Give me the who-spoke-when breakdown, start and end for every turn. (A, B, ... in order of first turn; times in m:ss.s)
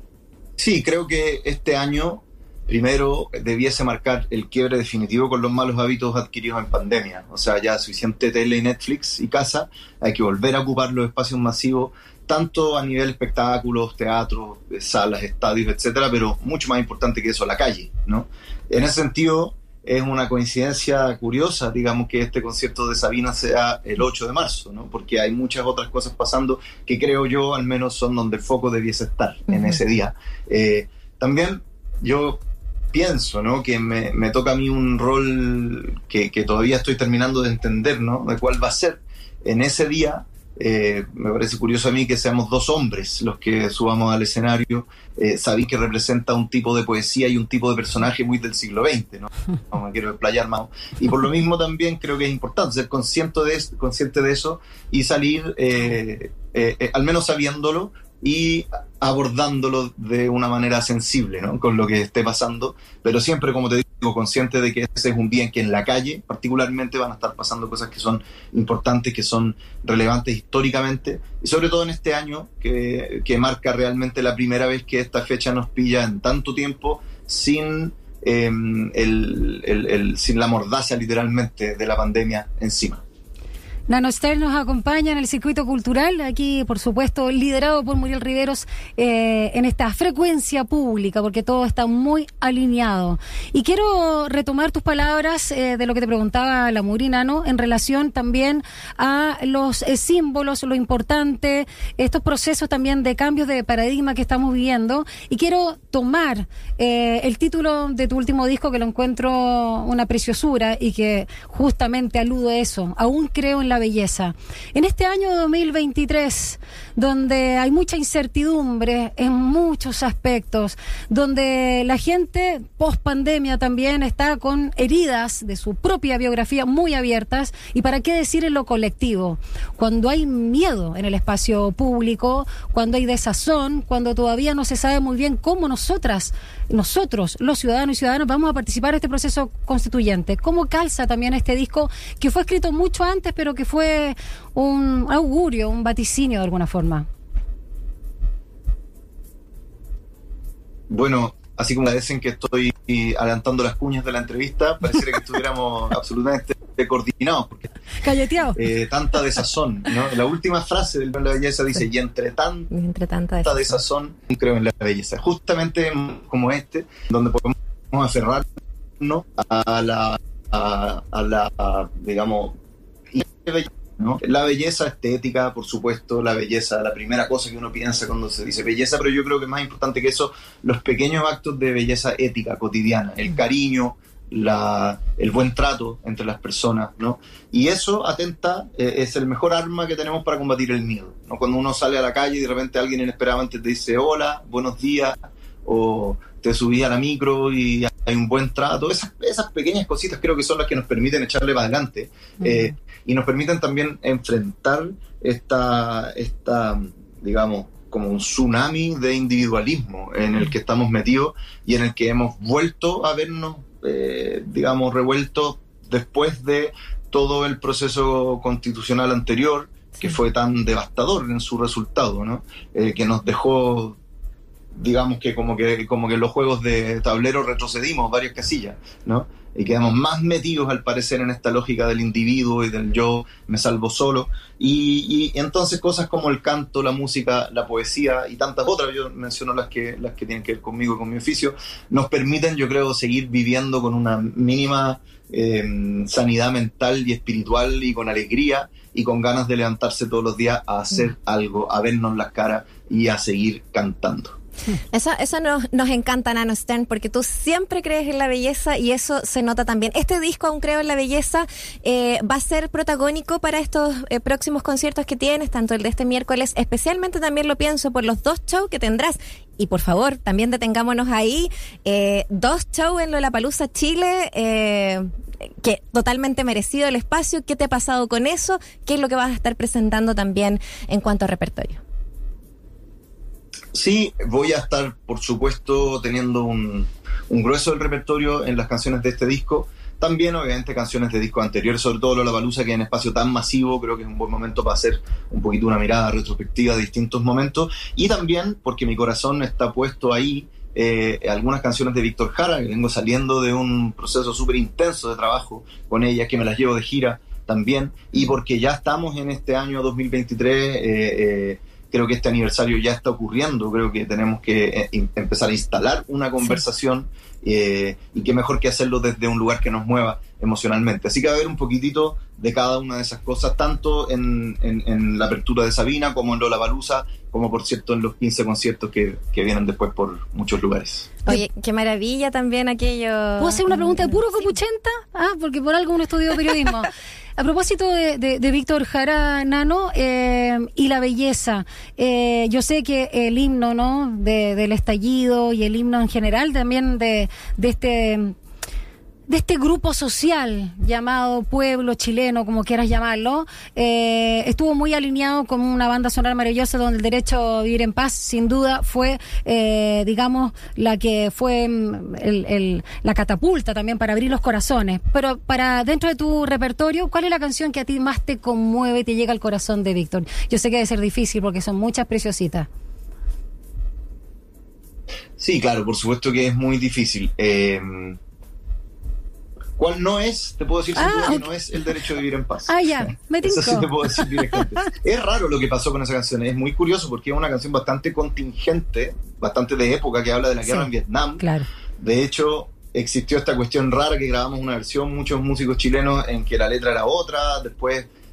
0:00.6-1:23.0 A
1:23.9-2:27.1 B
2:30.9-2:37.7 A
2:38.0-2:38.6 B
2:38.5-2:42.7 A
2:42.7-2:43.6 C
2:43.4-2:48.4 A
2:49.0-2:52.6 A
2:53.1-3:44.0 A
3:44.8-4:14.4 A
4:14.9-4:41.8 C
4:43.7-5:31.2 A
5:31.2-5:34.5 C
5:33.4-5:48.3 B
5:49.3-6:12.7 B
6:15.4-6:18.2 A
6:19.8-6:22.8 A
6:20.9-6:21.5 B
6:22.7-6:24.8 B
6:23.4-6:31.4 A
6:31.4-6:31.7 B
6:32.0-6:38.1 A